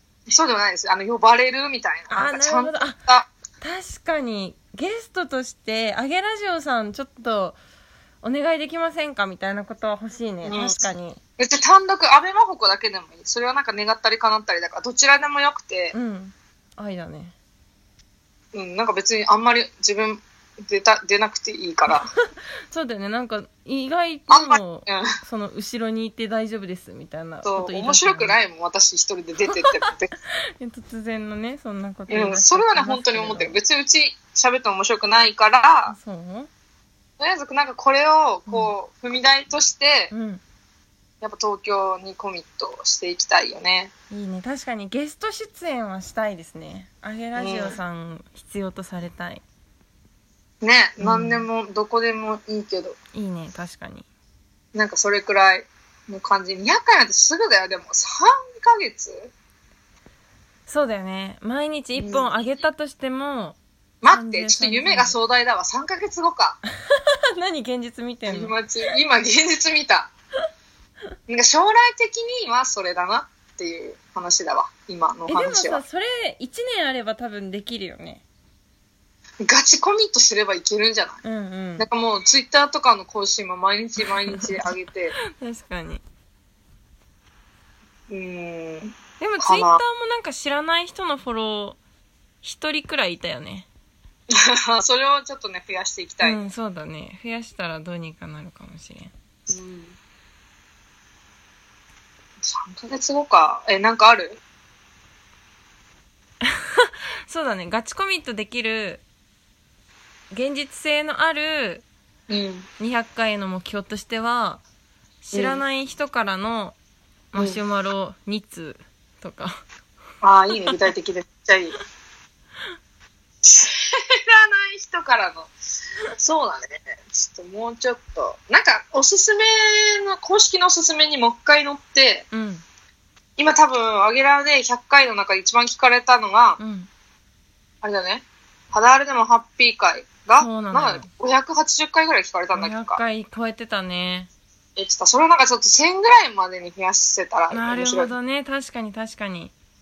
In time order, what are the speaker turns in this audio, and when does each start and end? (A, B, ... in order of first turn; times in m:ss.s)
0:00.3-0:03.3 A
0:02.1-0:03.0 B
0:03.6-0:07.6 B
0:08.2-0:11.2 B
0:10.4-0:10.8 A
0:11.4-0:15.9 A
0:15.9-0:17.3 B
0:18.5-0:22.1 A
0:22.7-0:28.4 B
0:24.3-0:25.1 A
0:27.4-0:30.1 A
0:30.6-0:33.6 B
0:32.1-0:35.9 A
0:35.9-0:36.5 B
0:37.2-0:40.1 A
0:38.5-0:38.7 B
0:40.1-0:40.4 B
0:41.2-0:43.9 A
0:44.1-0:49.4 B
0:47.4-0:47.8 A
0:50.6-0:53.0 A
0:51.0-0:51.5 B
0:53.1-0:54.1 B
0:54.7-0:59.3 A
1:00.7-1:05.1 B
1:02.0-1:02.3 A
1:04.0-1:06.6 A
1:06.9-1:08.5 B
1:08.2-1:10.1 A
1:11.3-1:15.8 A
1:15.3-1:18.2 B
1:19.4-1:21.2 A
1:21.2-1:21.8 B
1:21.8-1:25.1 A
1:24.3-1:24.7 B
1:25.4-1:26.0 B
1:28.1-1:29.8 A
1:29.2-1:31.8 B
1:32.4-1:33.7 B
1:34.3-1:36.4 A
1:36.2-1:39.1 B
1:39.5-1:40.0 A
1:42.4-1:44.4 A
1:46.4-1:49.0 B
1:50.3-1:51.8 B
1:52.3-1:52.7 A
1:52.8-1:54.6 B
1:55.2-1:56.8 B
1:55.3-1:55.6 A
1:57.3-1:59.6 B
1:57.3-1:57.6 A
2:00.2-2:01.8 A
2:03.4-2:05.5 A
2:06.2-2:12.2 A
2:12.3-2:12.6 B
2:13.4-2:16.6 A
2:16.6-2:16.9 B
2:17.8-2:23.0 A
2:20.4-2:21.1 B
2:22.5-2:24.3 B
2:24.8-2:28.1 A
2:27.5-2:29.5 B